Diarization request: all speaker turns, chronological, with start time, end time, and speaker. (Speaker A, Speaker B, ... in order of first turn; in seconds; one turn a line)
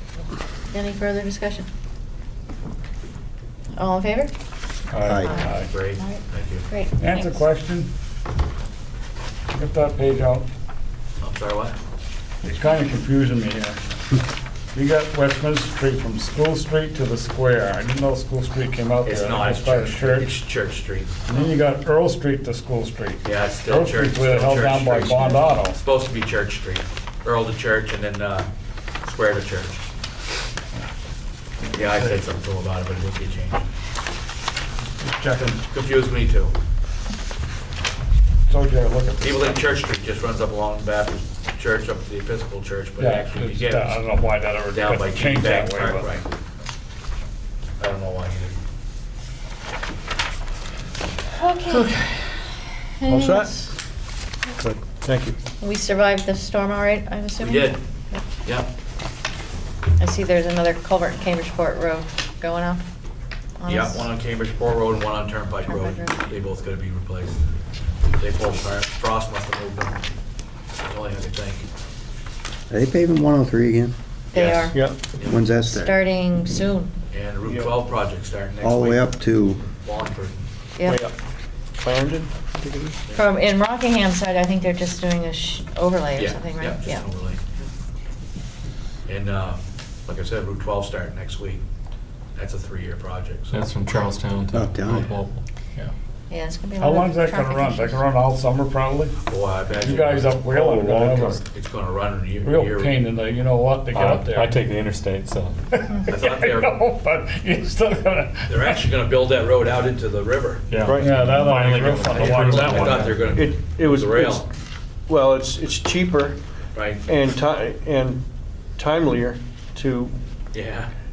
Speaker A: 0.7-1.7
Speaker A: 3.8-4.3
Speaker B: 4.9-5.7
Speaker C: 5.0-5.3
Speaker A: 5.1-7.5
Speaker D: 5.4-6.7
Speaker B: 7.0-7.9
Speaker B: 9.5-10.5
Speaker D: 11.2-11.8
Speaker B: 12.4-13.8
Speaker B: 14.7-20.3
Speaker D: 19.1-21.2
Speaker B: 21.3-25.8
Speaker D: 23.2-28.5
Speaker D: 29.0-29.8
Speaker D: 31.7-33.6
Speaker B: 31.8-32.1
Speaker B: 35.0-35.6
Speaker D: 35.7-36.5
Speaker B: 38.5-39.8
Speaker D: 39.2-44.0
Speaker B: 43.0-46.1
Speaker D: 44.7-46.3
Speaker D: 47.8-48.6
Speaker A: 51.3-52.0
Speaker A: 53.0-53.7
Speaker E: 53.1-53.6
Speaker E: 54.6-55.4
Speaker A: 55.6-58.3
Speaker D: 57.4-57.8
Speaker D: 58.4-58.7
Speaker A: 60.0-62.8
Speaker A: 63.6-64.1
Speaker D: 63.7-67.4
Speaker A: 65.6-66.2
Speaker D: 68.2-70.0
Speaker D: 70.8-71.7
Speaker C: 72.7-74.0
Speaker A: 74.3-74.8
Speaker D: 74.3-75.5
Speaker E: 74.7-75.0
Speaker C: 75.2-76.0
Speaker A: 75.5-76.9
Speaker D: 77.1-80.5
Speaker E: 77.4-77.7
Speaker C: 78.6-79.6
Speaker A: 80.8-81.0
Speaker E: 80.9-81.1
Speaker E: 81.8-83.0
Speaker A: 83.1-87.0
Speaker D: 86.2-87.4
Speaker D: 89.1-91.6
Speaker D: 92.3-94.1
Speaker F: 93.5-95.9
Speaker C: 94.5-95.1
Speaker A: 96.3-98.0
Speaker B: 96.8-101.4
Speaker D: 99.3-100.4
Speaker E: 100.5-101.3
Speaker D: 101.5-103.0
Speaker B: 102.4-104.6
Speaker F: 103.9-105.6
Speaker B: 105.7-108.9
Speaker D: 106.1-106.8
Speaker D: 108.5-110.7
Speaker F: 110.7-113.3
Speaker E: 110.8-111.3
Speaker B: 111.0-113.2
Speaker D: 112.1-114.5
Speaker E: 113.0-114.5
Speaker E: 115.1-116.4
Speaker D: 116.8-117.0
Speaker E: 117.0-118.2
Speaker E: 118.8-120.2
Speaker D: 120.5-120.9